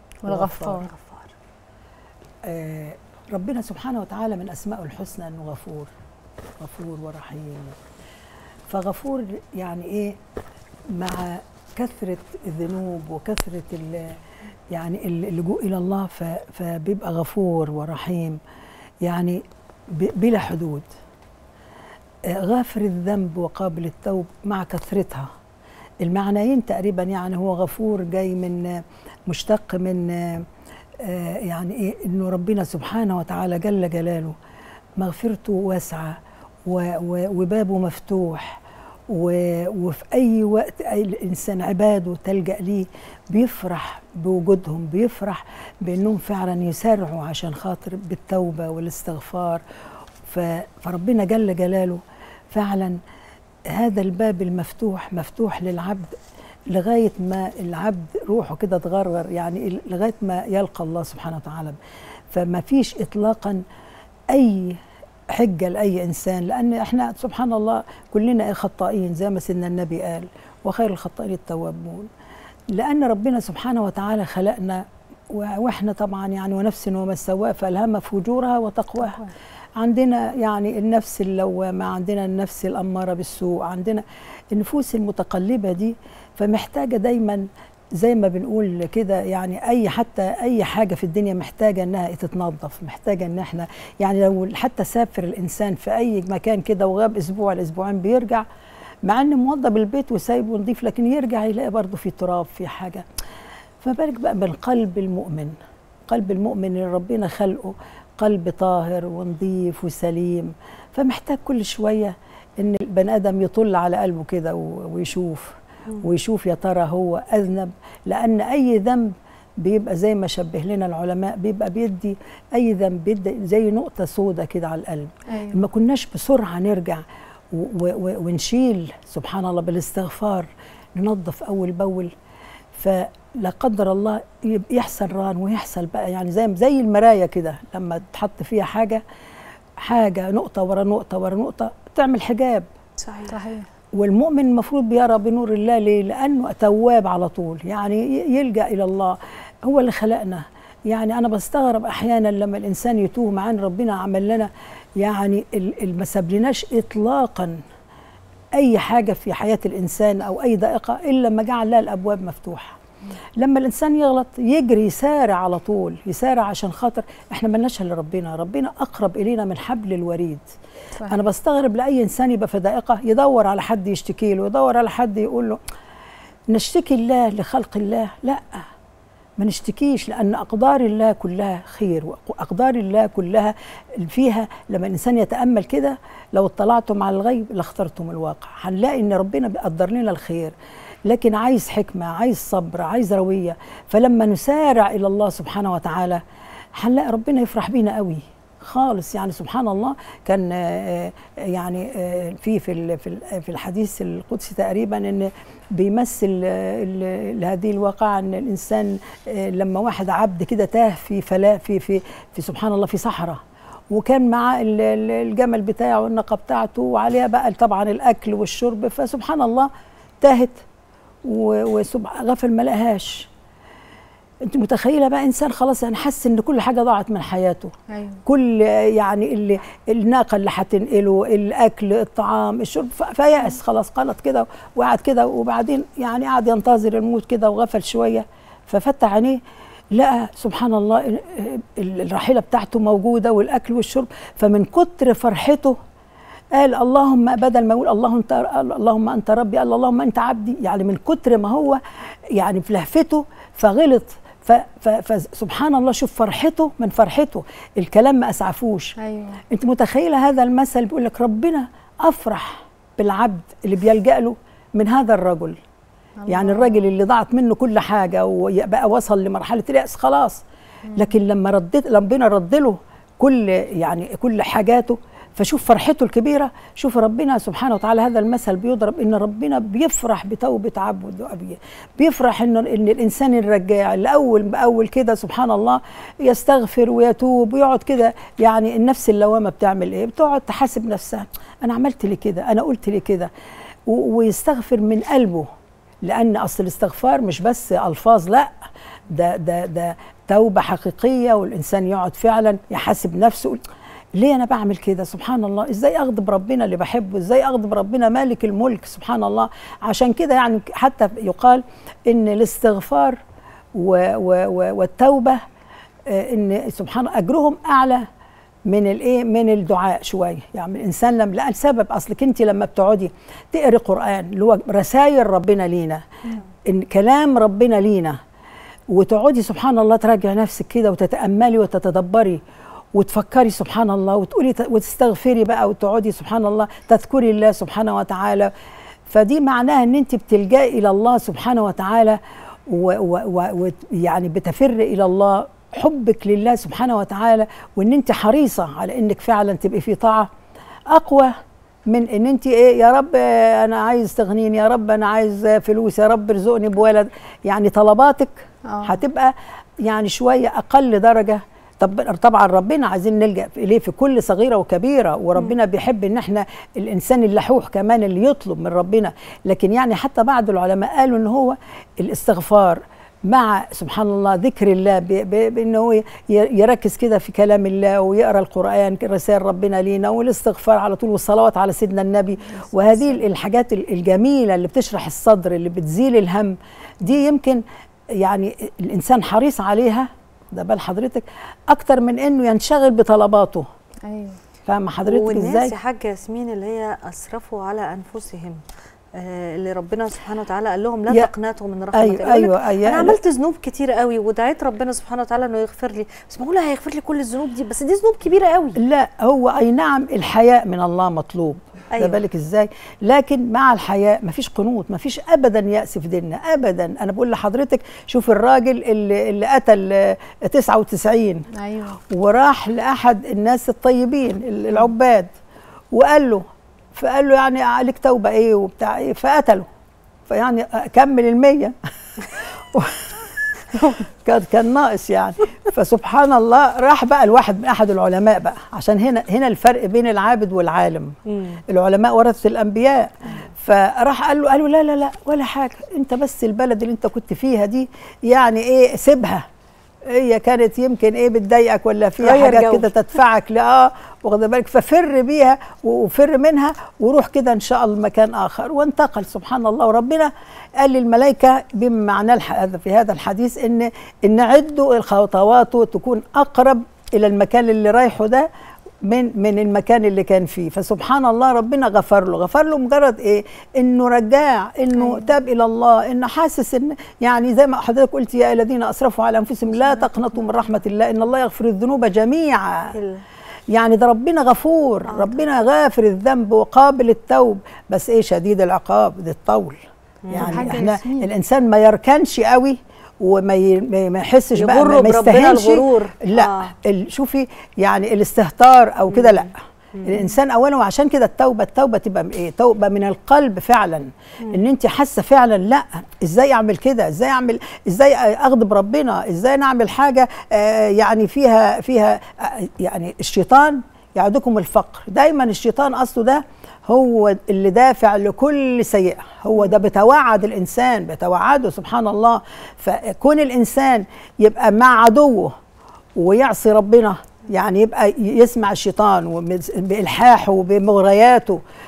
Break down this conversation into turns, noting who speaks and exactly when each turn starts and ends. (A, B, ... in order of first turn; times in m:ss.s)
0:00.2-0:00.9 A
0:00.3-0:00.9 B
0:02.4-0:05.9 B
0:06.6-0:07.8 B
0:08.7-0:10.2 B
0:10.9-0:14.2 B
0:14.7-0:18.4 B
0:19.0-0:20.9 B
0:22.2-0:25.3 B
0:26.0-0:30.5 B
0:31.0-0:34.4 B
0:35.0-0:49.6 B
0:50.2-0:53.0 B
0:53.7-0:56.2 B
0:56.7-1:01.8 B
1:02.3-1:03.6 B
1:04.3-1:04.8 B
1:05.3-1:12.1 B
1:12.7-1:38.4 B
1:39.0-1:43.0 B
1:43.8-1:45.6 B
1:46.1-2:12.1 B
2:05.3-2:05.6 A
2:12.7-2:19.0 B
2:19.8-2:22.6 B
2:23.0-2:23.3 C
2:23.3-2:23.6 A
2:23.9-2:37.6 B
2:38.5-2:42.8 B
2:43.4-2:50.5 B
2:51.0-2:55.6 B
2:56.5-2:58.6 B
2:59.4-3:10.5 B
3:11.1-3:16.2 B
3:16.7-3:39.7 B
3:40.2-3:40.6 B
3:41.2-3:43.3 B
3:44.4-3:47.7 B
3:47.9-3:48.2 A
3:48.2-3:59.4 B
3:59.9-4:05.8 B
4:06.5-4:11.8 B
4:12.3-4:19.0 B
4:19.0-4:19.4 A
4:19.5-4:25.6 B
4:26.2-4:26.8 A
4:26.3-4:30.4 B
4:30.9-4:53.3 B
4:53.9-4:55.5 B
4:56.0-4:58.5 B
4:59.1-5:03.6 B
5:04.2-5:13.2 B
5:13.7-5:15.4 B
5:16.1-5:18.0 B
5:18.7-5:26.0 B
5:26.6-5:28.2 B
5:28.9-5:32.4 B
5:32.9-5:38.5 B
5:39.1-5:50.3 B
5:50.9-5:51.3 B
5:51.9-6:27.6 B
5:58.7-5:59.0 A
6:28.2-6:33.6 B
6:34.0-6:34.4 A
6:34.6-6:35.7 B
6:35.0-6:38.6 C
6:39.2-6:48.8 C
6:41.9-6:43.2 B
6:48.8-7:01.5 B
6:51.9-6:52.2 C
7:01.5-7:02.0 A
7:02.1-7:05.3 B
7:05.9-7:06.4 B
7:06.9-7:09.6 B
7:10.3-7:11.7 B
7:12.3-7:21.2 B
7:21.3-7:21.6 C
7:21.7-7:29.4 B
7:30.1-7:48.5 B
7:32.2-7:32.9 C
7:49.0-8:02.9 B
8:02.9-8:03.2 C
8:03.7-8:09.8 B
8:05.1-8:05.4 C
8:10.2-8:10.8 C
8:10.3-8:45.5 B
8:10.3-8:11.3 A
8:14.5-8:16.7 C
8:19.1-8:20.3 C
8:46.2-8:51.6 B